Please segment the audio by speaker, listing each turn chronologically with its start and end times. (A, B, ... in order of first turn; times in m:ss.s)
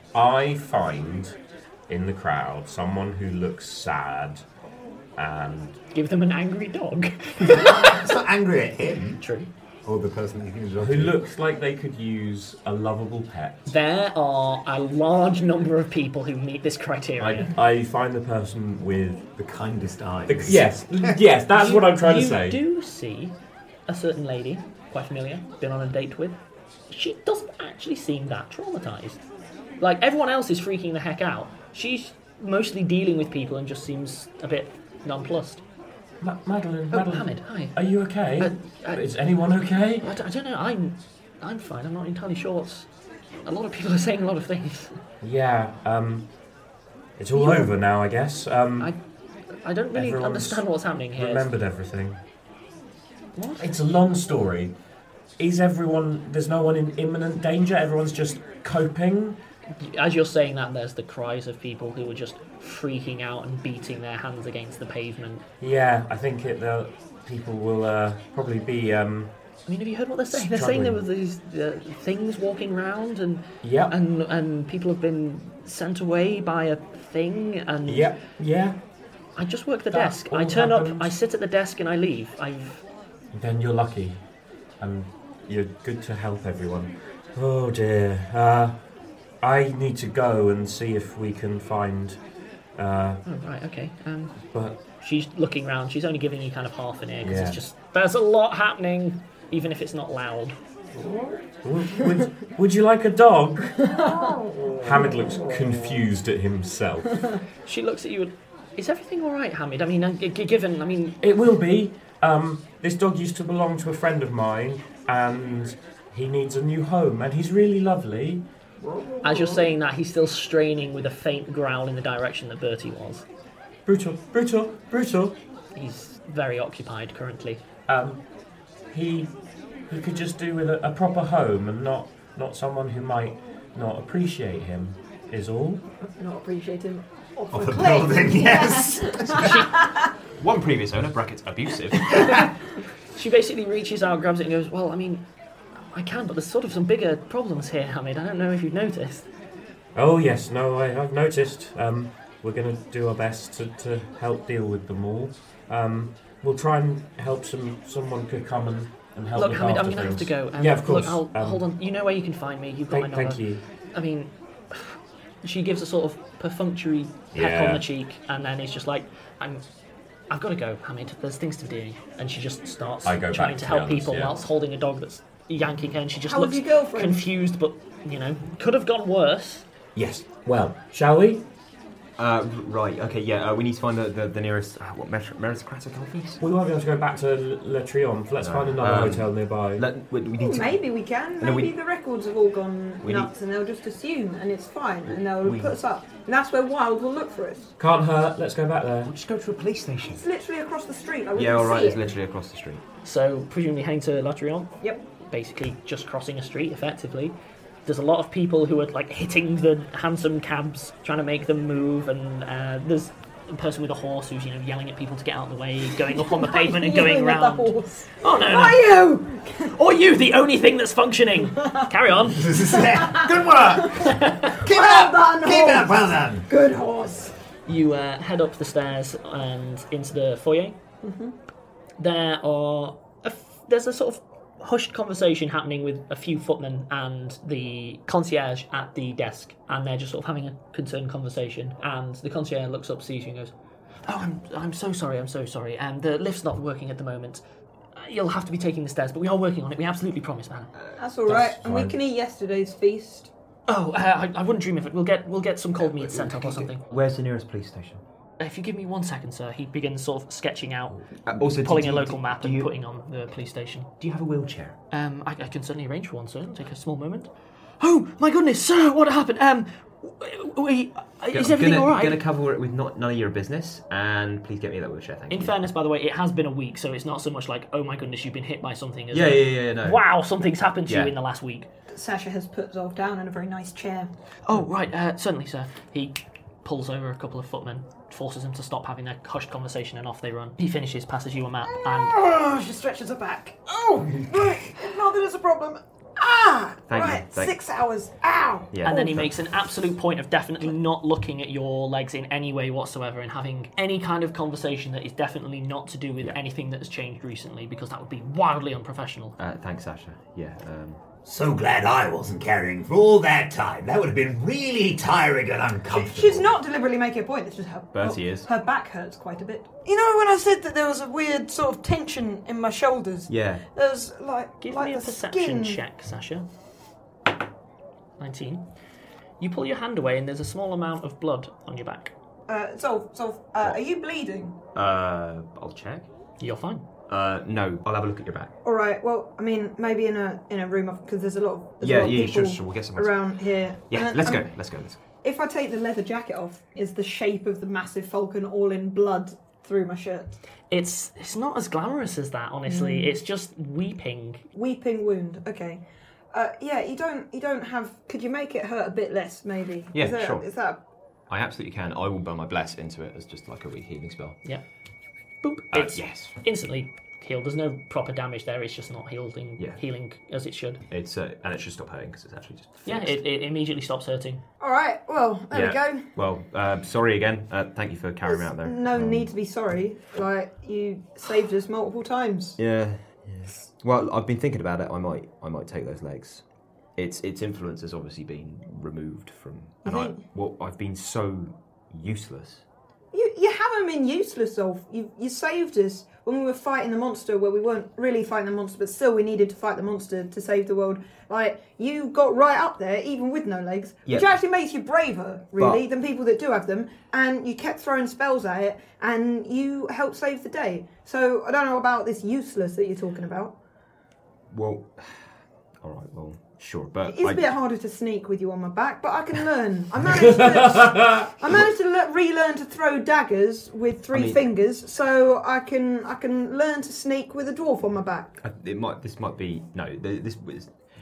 0:00.1-0:01.4 A
0:01.9-0:04.4 A
0:05.2-0:05.8 A
0:05.9-0:07.9 B
0:07.4-0:09.2 C
0:09.2-0:09.5 B
0:09.8-0:11.2 C
0:10.8-0:13.7 A
0:13.7-0:17.5 B
0:17.4-0:19.2 A
0:19.4-0:21.2 C
0:20.2-0:22.6 A
0:21.5-0:23.4 B
0:23.9-0:29.2 B
0:29.8-0:35.6 B
0:36.2-0:40.1 A
0:36.9-0:39.1 B
0:40.0-0:42.9 B
0:43.4-0:45.0 B
0:45.2-0:46.3 A
0:47.2-0:48.9 A
0:47.3-0:47.7 B
0:49.5-0:51.5 B
0:49.9-0:52.2 A
0:53.4-0:53.7 B
0:53.6-0:54.7 A
0:55.4-0:59.4 A
0:59.8-1:05.4 B
1:05.6-1:09.3 A
1:09.6-1:18.1 B
1:10.3-1:11.0 A
1:13.6-1:13.9 A
1:17.9-1:18.8 A
1:19.4-1:22.8 B
1:19.9-1:21.1 A
1:23.3-1:24.2 A
1:24.8-1:28.8 A
1:29.4-1:32.2 A
1:32.8-1:33.2 A
1:33.2-1:34.4 B
1:34.5-1:34.8 A
1:35.0-1:40.6 B
1:37.2-1:37.6 A
1:41.6-1:43.8 A
1:44.0-1:44.4 D
1:44.7-1:47.2 A
1:47.6-1:51.2 B
1:51.2-1:58.4 A
1:59.2-2:03.2 B
2:03.9-2:05.4 A
2:05.8-2:07.6 B
2:07.9-2:08.2 A
2:08.9-2:09.3 A
2:09.9-2:15.8 A
2:16.0-2:20.0 D
2:17.5-2:19.5 C
2:20.4-2:22.2 E
2:22.1-2:22.4 B
2:23.1-2:25.3 B
2:25.9-2:29.3 B
2:29.9-2:41.7 A
2:39.3-2:49.6 B
2:42.9-2:43.6 A
2:47.3-2:47.8 A
2:50.3-2:59.6 B
2:53.0-2:54.4 A
2:56.2-2:57.3 D
3:00.0-3:01.4 A
3:02.2-3:06.4 E
3:06.4-3:09.9 A
3:08.4-3:11.8 E
3:10.3-3:17.7 D
3:13.0-3:13.3 E
3:15.0-3:15.8 E
3:17.8-3:19.1 A
3:19.0-3:20.3 E
3:20.2-3:22.1 D
3:21.3-3:22.8 E
3:23.0-3:38.9 B
3:36.1-3:39.7 D
3:39.7-3:42.5 B
3:42.2-3:43.9 C
3:42.8-3:43.4 D
3:44.0-3:44.4 B
3:44.6-3:47.3 D
3:44.6-3:46.4 C
3:47.7-3:50.8 B
3:51.0-3:51.3 D
3:52.0-4:03.5 B
4:04.0-4:07.4 B
4:08.0-4:10.7 B
4:10.8-4:11.9 E
4:11.0-4:13.3 D
4:13.7-4:16.9 B
4:15.8-4:18.0 E
4:18.4-4:23.9 B
4:21.0-4:22.7 E
4:24.0-4:24.8 E
4:24.9-4:27.3 B
4:27.8-4:32.2 B
4:31.3-4:35.6 E
4:35.3-4:41.7 B
4:39.1-4:40.0 E
4:40.9-4:41.1 E
4:41.9-4:44.1 D
4:44.4-4:52.2 B
4:51.7-4:59.2 D
4:56.9-4:57.6 E
4:58.7-4:59.3 E
4:58.8-5:09.4 B
5:09.4-5:11.0 E
5:11.2-5:16.5 C
5:15.9-5:25.8 D
5:17.9-5:18.5 E
5:23.3-5:23.6 E
5:24.6-5:26.4 B
5:28.2-5:28.7 B
5:29.4-5:32.1 B
5:32.5-5:34.5 D
5:34.7-5:36.1 E
5:36.4-5:36.9 B
5:37.1-5:38.5 E
5:38.6-5:44.6 D
5:41.8-5:45.0 E
5:45.2-5:50.4 D
5:50.7-5:54.4 B
5:52.6-5:53.2 D
5:54.5-6:00.8 D
5:59.9-6:00.5 E
6:01.3-6:04.4 E
6:05.4-6:10.8 B
6:05.7-6:06.4 E
6:10.9-6:13.2 E
6:12.8-6:14.4 B
6:14.6-6:16.1 D
6:15.5-6:19.3 E
6:18.2-6:22.6 D
6:22.6-6:26.4 E
6:27.0-6:32.6 E
6:29.8-6:30.2 D
6:33.1-6:53.5 D
6:44.0-6:44.3 E
6:45.6-6:45.8 E
6:54.5-6:57.5 E
6:57.0-7:08.3 D
7:00.1-7:01.3 A
7:04.1-7:04.5 E
7:08.4-7:10.8 E